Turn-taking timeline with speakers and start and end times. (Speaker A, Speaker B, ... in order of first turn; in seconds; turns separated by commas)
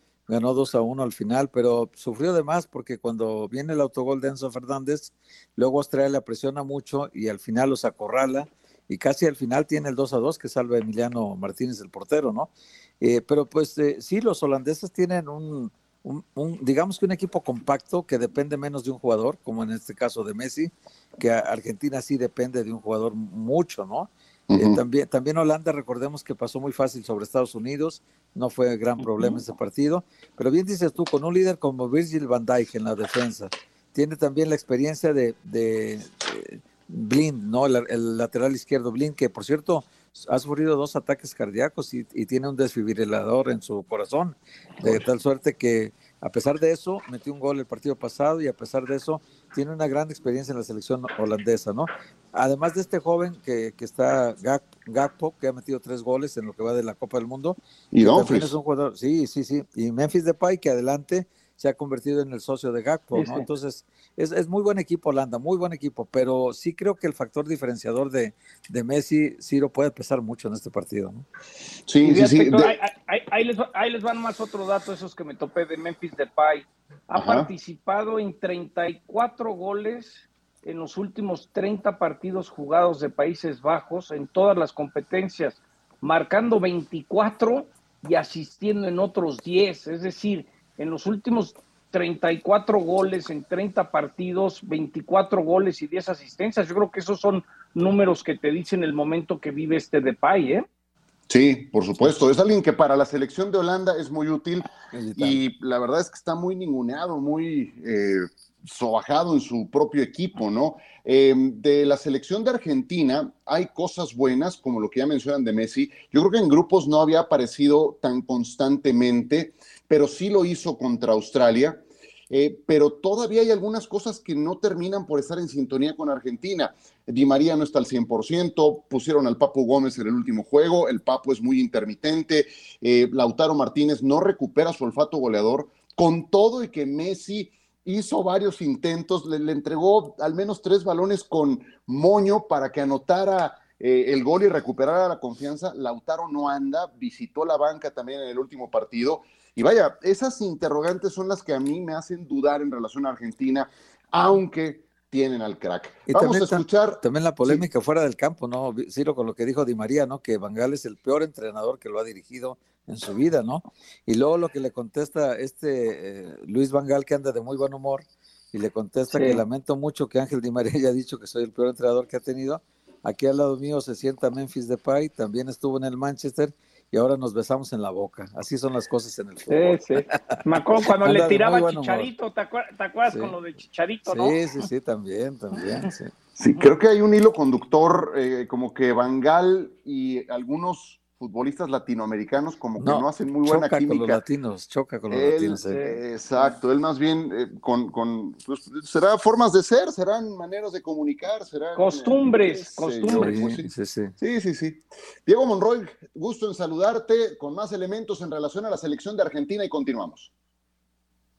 Speaker A: 0.3-71.3, Speaker B: 24.5-24.8, Speaker B: 57.9-58.5, Speaker C: 63.1-63.5, Speaker B: 71.9-72.8, Speaker C: 72.0-100.7, Speaker B: 77.1-77.5, Speaker B: 101.3-157.7, Speaker A: 104.9-105.4, Speaker A: 156.1-180.4, Speaker C: 169.1-169.4, Speaker C: 179.5-184.6, Speaker A: 180.9-182.1, Speaker A: 183.1-183.3, Speaker A: 184.1-186.1, Speaker B: 186.4-194.2, Speaker A: 192.8-195.8, Speaker B: 195.1-210.3, Speaker C: 195.7-196.0, Speaker C: 201.8-203.4, Speaker A: 203.1-204.2